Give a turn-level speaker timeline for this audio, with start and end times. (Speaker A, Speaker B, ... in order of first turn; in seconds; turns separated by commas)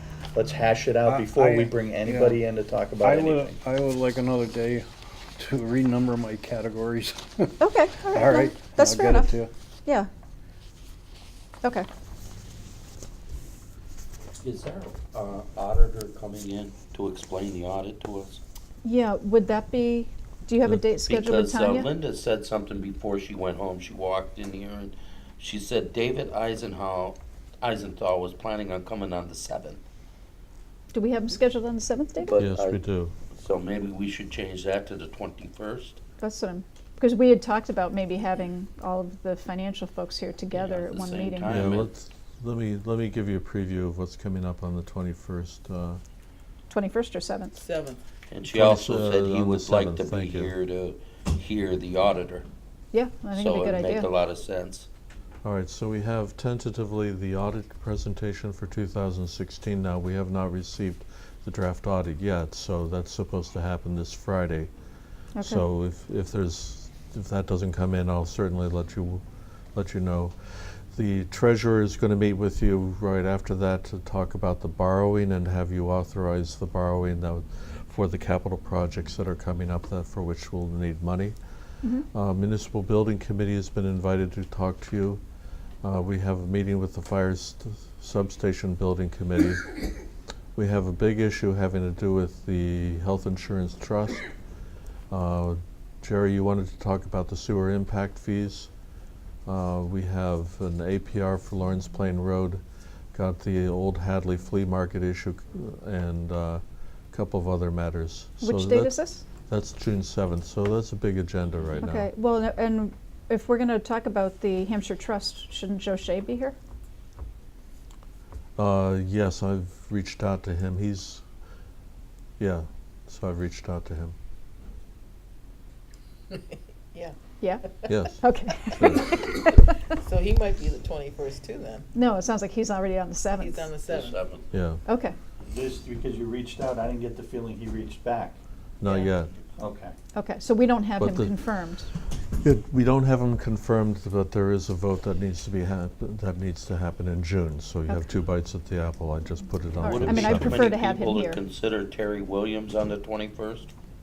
Speaker A: 0.3-3.6, Speaker B: 1.0-2.5, Speaker B: 3.0-9.5, Speaker C: 7.6-10.1, Speaker D: 14.4-18.4, Speaker C: 18.8-21.9, Speaker D: 21.0-29.8, Speaker C: 30.9-32.4, Speaker D: 32.2-32.8, Speaker E: 32.4-33.1, Speaker D: 33.3-36.0, Speaker C: 36.2-41.7, Speaker D: 40.5-41.9, Speaker E: 41.5-46.0, Speaker C: 46.7-47.6, Speaker F: 47.5-48.0, Speaker D: 48.3-52.5, Speaker E: 48.5-50.5, Speaker C: 52.9-54.1, Speaker D: 53.3-54.9, Speaker E: 55.4-64.7, Speaker C: 65.3-65.6, Speaker E: 65.4-69.2, Speaker E: 69.7-81.3, Speaker C: 81.8-82.1, Speaker E: 82.1-85.2, Speaker E: 85.8-90.0, Speaker E: 90.5-94.3, Speaker E: 95.1-98.7, Speaker E: 99.5-112.1, Speaker C: 108.4-109.2, Speaker C: 111.8-116.5, Speaker E: 118.5-121.2, Speaker E: 122.4-124.1, Speaker C: 127.4-129.8, Speaker E: 127.9-129.2, Speaker F: 130.0-131.9, Speaker C: 131.9-133.7, Speaker F: 133.3-134.2, Speaker D: 133.9-134.5, Speaker E: 134.5-134.8, Speaker C: 134.8-135.1, Speaker A: 135.5-138.4, Speaker E: 138.8-139.3, Speaker A: 139.6-139.9, Speaker C: 140.1-141.9, Speaker E: 141.0-141.5, Speaker E: 142.3-150.7, Speaker C: 149.8-151.4, Speaker D: 149.8-153.7